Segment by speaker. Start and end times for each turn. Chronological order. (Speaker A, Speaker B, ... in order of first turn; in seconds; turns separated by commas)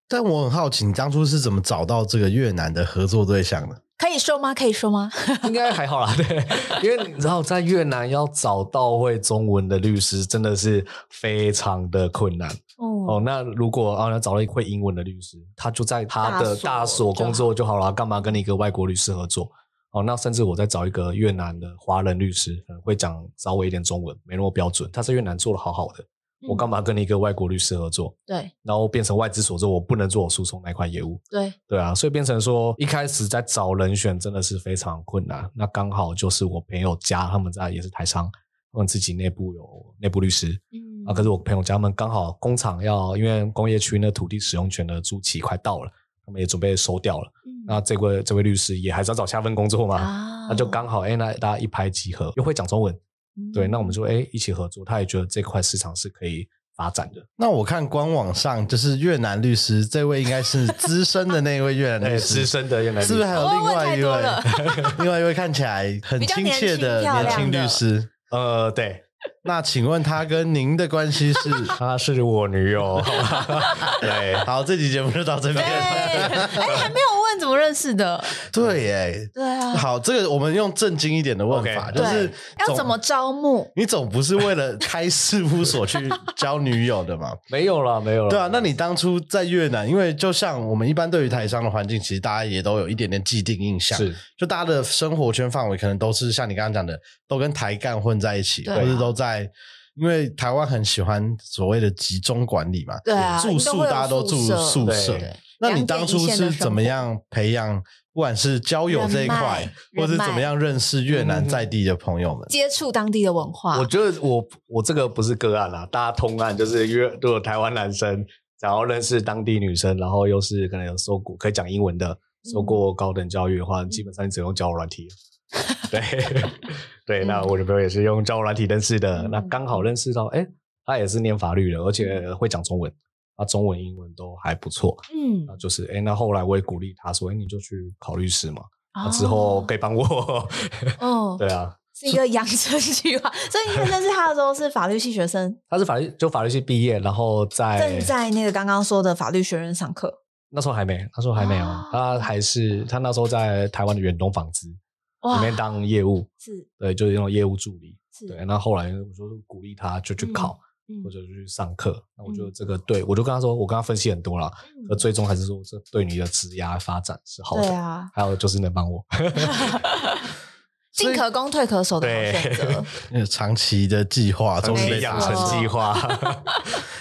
Speaker A: 0.1-3.8, Speaker B: 4.0-5.7, Speaker C: 5.4-53.0, Speaker B: 12.8-13.2, Speaker B: 16.2-17.5, Speaker B: 26.4-26.7, Speaker B: 28.3-28.5, Speaker B: 31.3-31.6, Speaker B: 40.7-41.3, Speaker B: 47.5-47.8, Speaker B: 50.0-50.8, Speaker B: 53.4-54.0, Speaker C: 53.5-57.3, Speaker A: 57.4-68.1, Speaker C: 62.0-63.5, Speaker B: 63.3-65.0, Speaker C: 64.5-65.0, Speaker B: 66.2-67.8, Speaker C: 67.1-67.5, Speaker C: 68.3-69.0, Speaker A: 69.5-71.8, Speaker B: 71.4-71.7, Speaker C: 71.8-74.5, Speaker B: 73.0-74.1, Speaker A: 73.9-76.9, Speaker C: 75.5-76.9, Speaker B: 75.6-78.4, Speaker A: 78.5-83.0, Speaker B: 79.3-79.9, Speaker C: 81.5-82.2, Speaker B: 82.0-83.7, Speaker A: 83.8-87.4, Speaker C: 87.5-88.7, Speaker A: 88.3-112.5, Speaker C: 93.9-94.2, Speaker B: 98.7-99.1, Speaker B: 103.0-107.0, Speaker C: 104.8-105.3, Speaker B: 108.9-110.5, Speaker C: 111.1-111.7, Speaker B: 112.5-113.9, Speaker C: 113.7-125.1, Speaker B: 122.5-122.8, Speaker C: 125.8-141.8, Speaker B: 127.2-127.5, Speaker B: 129.2-129.5, Speaker B: 135.1-135.6, Speaker B: 138.9-139.7, Speaker B: 141.0-141.4, Speaker B: 142.0-145.6, Speaker C: 145.7-148.1, Speaker B: 147.8-150.2, Speaker C: 150.5-154.8, Speaker B: 151.4-152.3, Speaker B: 155.2-155.6, Speaker C: 155.3-156.3, Speaker B: 156.4-156.7, Speaker C: 156.8-169.9, Speaker B: 160.2-161.1, Speaker B: 162.2-162.5, Speaker B: 164.7-165.0, Speaker B: 167.5-168.1, Speaker B: 169.3-170.3, Speaker B: 170.9-172.9, Speaker A: 171.0-171.2, Speaker C: 172.0-172.9, Speaker A: 173.1-175.7, Speaker C: 174.6-176.6, Speaker B: 174.7-176.8